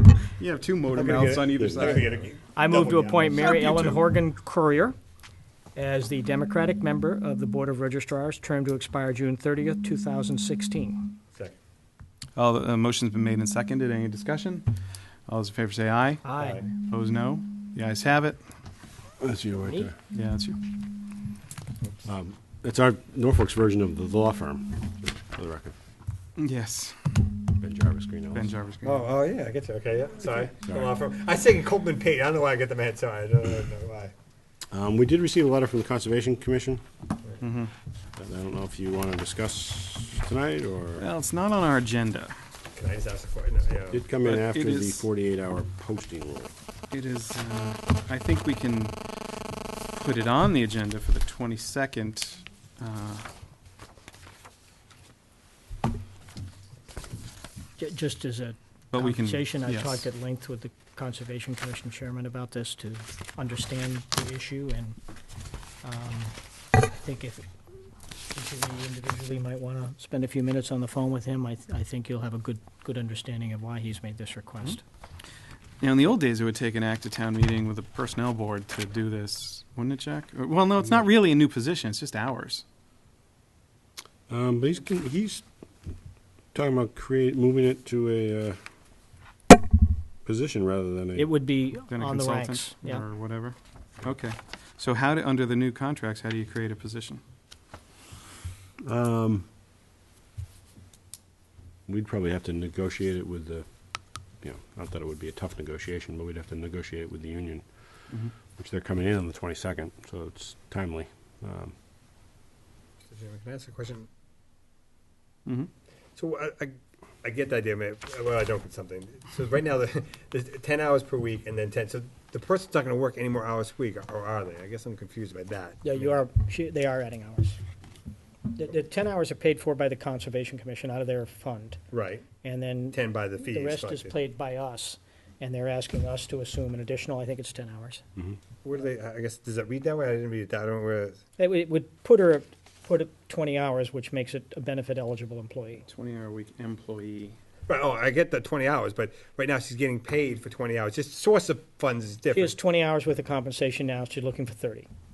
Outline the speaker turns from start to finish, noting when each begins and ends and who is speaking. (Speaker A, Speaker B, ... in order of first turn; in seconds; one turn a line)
Speaker A: 0.4-2.2
Speaker B: 0.9-4.0
Speaker C: 1.6-2.0
Speaker D: 2.5-5.0
Speaker D: 5.8-11.1
Speaker A: 12.4-14.7
Speaker A: 15.3-16.2
Speaker D: 16.2-16.7
Speaker B: 16.3-16.7
Speaker A: 16.9-18.4
Speaker C: 19.2-19.9
Speaker D: 19.6-19.9
Speaker A: 20.1-20.6
Speaker C: 22.1-25.8
Speaker A: 26.4-27.2
Speaker C: 27.6-28.5
Speaker A: 28.3-29.1
Speaker B: 28.8-34.1
Speaker C: 30.7-30.9
Speaker C: 34.7-36.8
Speaker A: 37.4-37.7
Speaker C: 38.2-41.1
Speaker A: 41.0-42.3
Speaker B: 42.8-44.0
Speaker C: 43.9-46.5
Speaker A: 44.2-45.1
Speaker A: 46.9-49.0
Speaker A: 49.9-53.3
Speaker D: 57.8-65.0
Speaker A: 58.9-60.1
Speaker D: 65.8-66.4
Speaker D: 66.9-67.5
Speaker D: 68.3-74.8
Speaker A: 75.8-82.6
Speaker C: 84.3-85.5
Speaker C: 86.5-88.6
Speaker C: 90.2-91.3
Speaker D: 91.2-93.0
Speaker A: 91.9-97.2
Speaker C: 98.8-99.5
Speaker C: 101.9-103.7
Speaker C: 104.4-107.7
Speaker C: 108.5-111.7
Speaker B: 113.1-114.1
Speaker B: 116.2-126.1
Speaker D: 125.8-127.6
Speaker D: 128.6-131.8
Speaker B: 131.9-132.3
Speaker D: 132.4-138.0
Speaker B: 132.9-134.2
Speaker B: 138.6-141.2
Speaker D: 141.4-145.9
Speaker A: 145.9-147.4
Speaker B: 147.7-152.6
Speaker D: 152.3-154.9